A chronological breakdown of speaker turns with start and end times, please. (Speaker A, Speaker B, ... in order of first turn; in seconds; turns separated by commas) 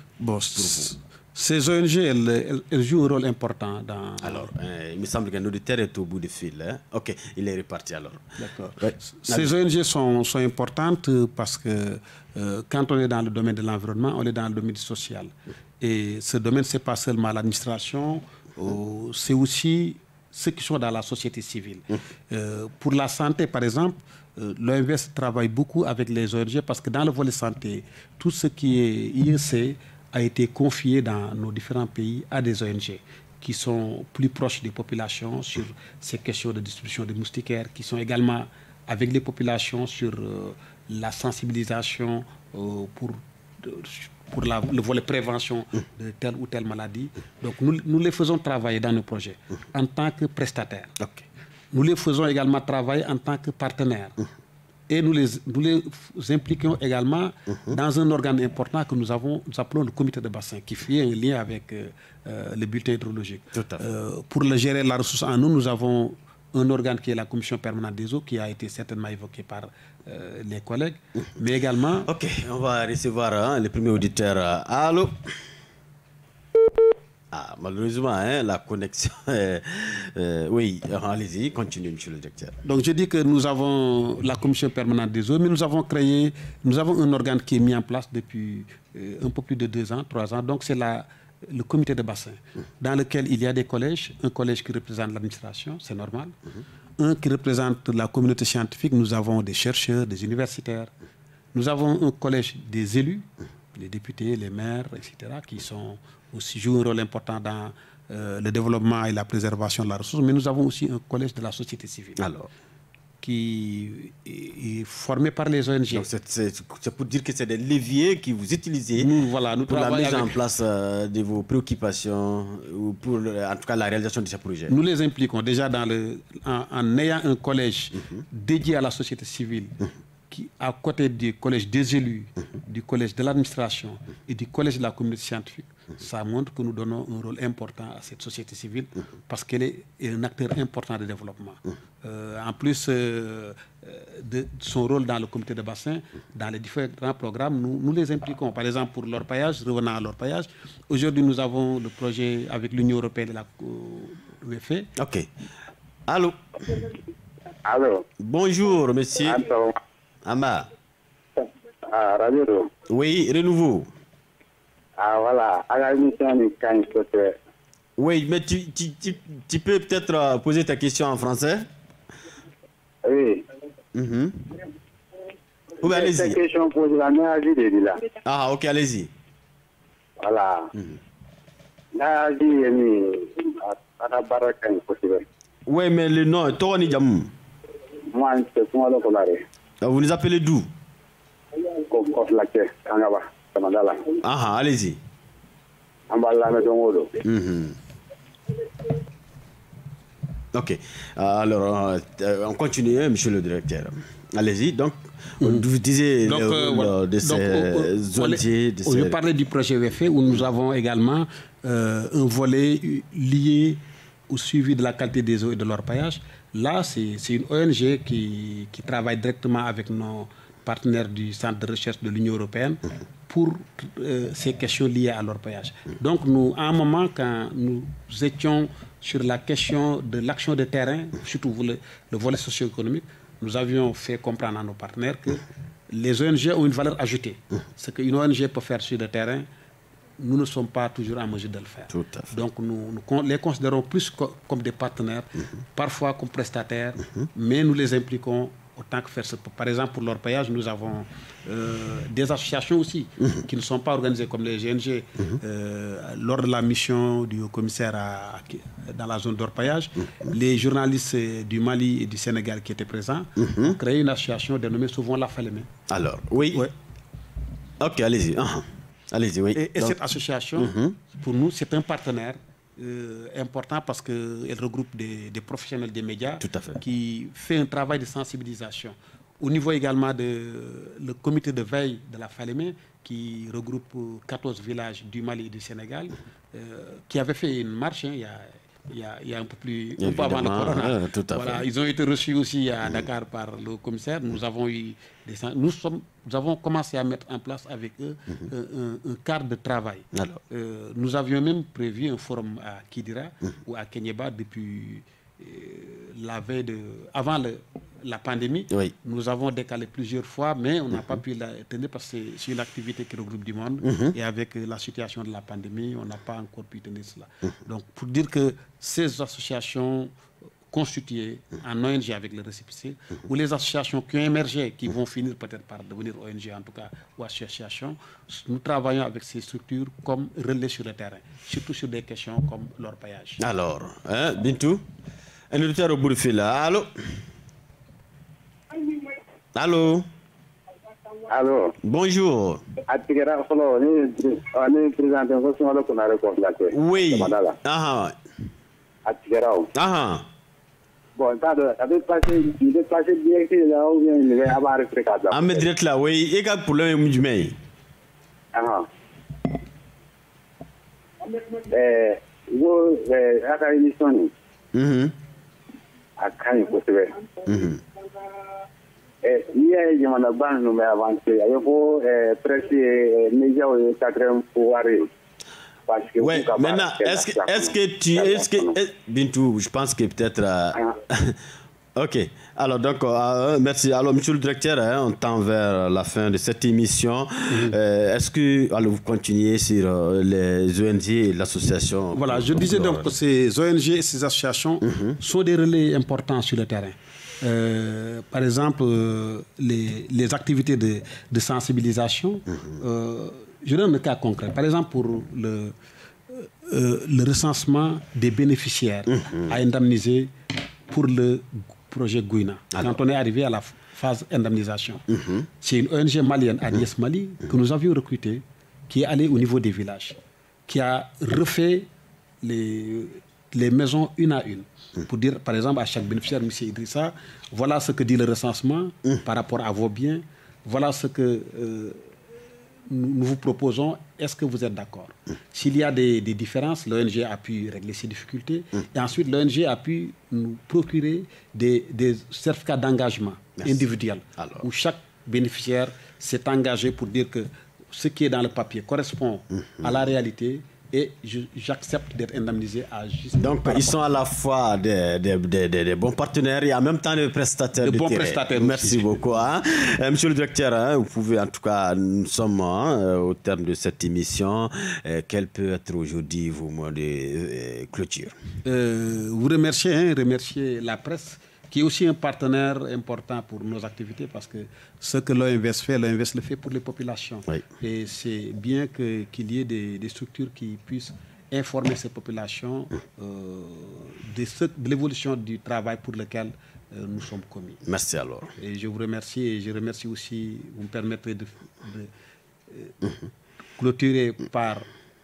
Speaker A: 0.2-4.5, Speaker B: 0.6-0.9, Speaker B: 4.2-9.5, Speaker A: 8.4-51.0, Speaker B: 51.0-51.3, Speaker A: 51.7-54.2, Speaker A: 54.9-72.1, Speaker B: 63.5-63.8, Speaker B: 72.1-75.2, Speaker B: 77.3-82.6, Speaker A: 82.6-96.4, Speaker A: 97.0-100.9, Speaker A: 101.5-112.3, Speaker B: 112.2-112.5, Speaker A: 113.2-116.1, Speaker B: 115.9-119.1, Speaker A: 119.0-120.4, Speaker B: 119.7-124.7, Speaker A: 124.7-129.8, Speaker A: 130.3-154.9, Speaker B: 155.0-155.3, Speaker B: 156.1-156.8, Speaker C: 157.6-158.1, Speaker B: 158.2-159.4, Speaker C: 159.3-159.8, Speaker B: 160.2-160.7, Speaker C: 161.4-162.7, Speaker B: 162.9-163.9, Speaker C: 165.0-167.4, Speaker B: 168.0-171.7, Speaker C: 173.0-173.5, Speaker B: 173.9-174.5, Speaker B: 175.8-176.4, Speaker C: 175.8-178.1, Speaker B: 178.2-179.1, Speaker C: 180.2-180.7, Speaker C: 181.9-185.2, Speaker B: 185.7-187.3, Speaker C: 188.1-189.4, Speaker B: 189.8-190.7, Speaker C: 191.7-194.2, Speaker B: 194.2-195.0, Speaker C: 196.1-197.2, Speaker B: 197.2-197.8, Speaker B: 200.5-209.2, Speaker A: 205.4-205.7, Speaker A: 206.2-239.5, Speaker A: 240.2-265.7, Speaker B: 241.9-242.3, Speaker B: 263.4-263.8, Speaker B: 265.9-266.7, Speaker B: 267.8-270.0, Speaker A: 269.5-320.1, Speaker B: 270.6-271.0, Speaker B: 276.4-276.8, Speaker B: 290.0-291.6, Speaker B: 300.1-300.4, Speaker B: 313.9-314.1, Speaker A: 320.7-333.4, Speaker B: 333.4-334.9, Speaker B: 335.5-337.2, Speaker B: 339.6-340.1, Speaker C: 341.3-341.8, Speaker B: 341.8-342.7, Speaker C: 342.9-347.6, Speaker B: 346.7-348.2, Speaker C: 349.1-349.7, Speaker B: 349.7-350.3, Speaker C: 351.2-355.7, Speaker B: 355.3-357.6, Speaker C: 358.5-358.9, Speaker C: 361.6-364.3, Speaker B: 364.7-365.2, Speaker C: 366.2-367.3, Speaker B: 367.5-367.8, Speaker C: 369.2-375.1, Speaker C: 375.9-378.7, Speaker B: 376.2-381.4, Speaker B: 382.0-393.1, Speaker A: 387.5-387.8, Speaker A: 392.1-405.8, Speaker A: 406.3-410.3, Speaker A: 410.9-415.1, Speaker B: 412.7-413.0, Speaker B: 415.1-415.5, Speaker A: 415.6-421.9, Speaker A: 422.4-432.1, Speaker A: 432.9-454.0, Speaker B: 443.6-443.8, Speaker B: 444.4-444.7, Speaker B: 453.4-468.4, Speaker A: 457.8-459.2, Speaker A: 468.6-487.8, Speaker B: 487.9-488.6, Speaker A: 488.6-492.1, Speaker A: 492.7-493.0, Speaker A: 493.8-494.9